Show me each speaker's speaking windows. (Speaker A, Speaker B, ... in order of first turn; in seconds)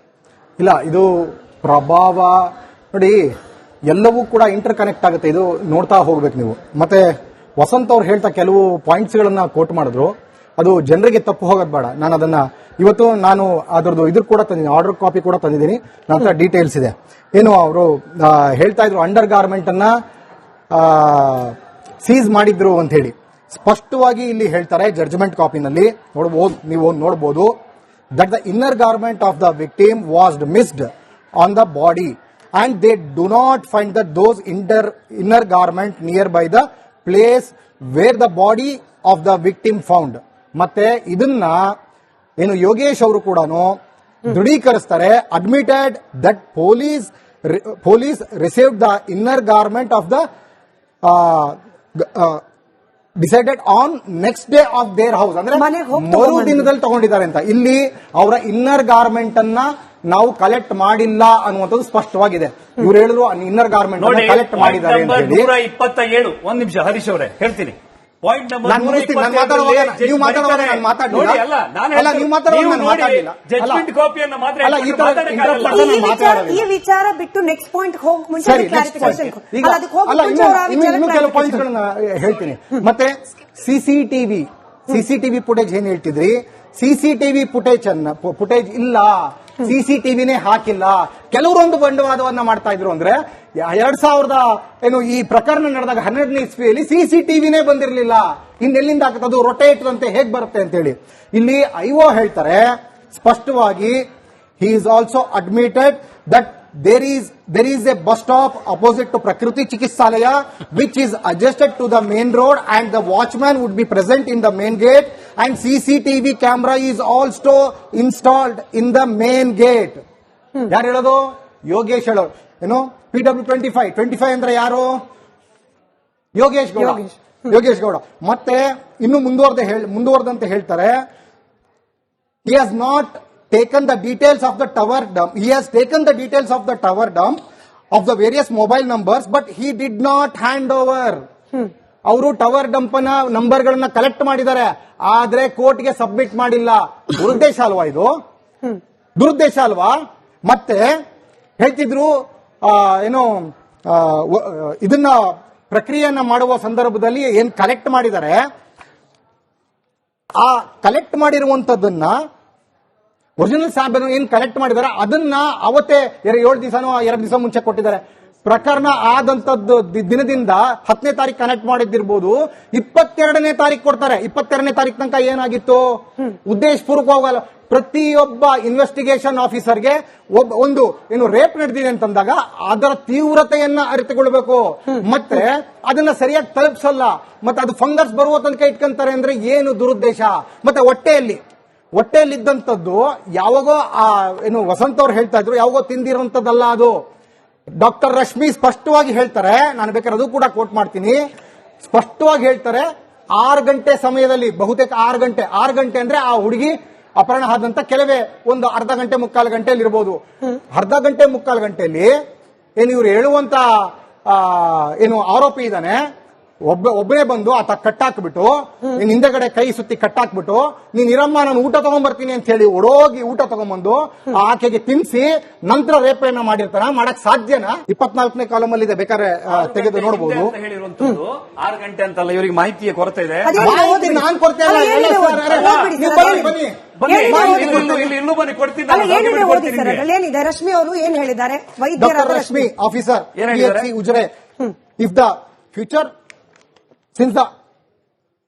Speaker A: 0.6-3.2, 3.9-19.9, 20.7-27.5, 28.1-41.8, 42.4-50.2, 51.0-52.4, 53.2-65.5, 68.6-71.4, 71.9-73.8, 74.6-76.6, 78.4-104.0, 104.6-120.0, 120.7-125.0, 126.3-131.0, 132.4-137.4, 137.9-141.2, 142.1-148.1, 149.2-151.0, 151.6-158.4, 160.4-162.2, 163.4-191.4, 191.9-197.0, 197.8-201.2, 201.8-210.2, 210.7-212.1, 212.8-216.0, 216.6-230.5, 233.6-238.0, 242.0-244.3, 245.0-246.1, 247.1-247.5
Speaker B: 55.5-56.7, 75.7-81.6, 126.8-127.1, 233.4-238.1, 238.9-242.7
Speaker C: 64.0-75.9, 229.5-233.5, 235.5-235.9, 237.0-240.0, 243.3-243.9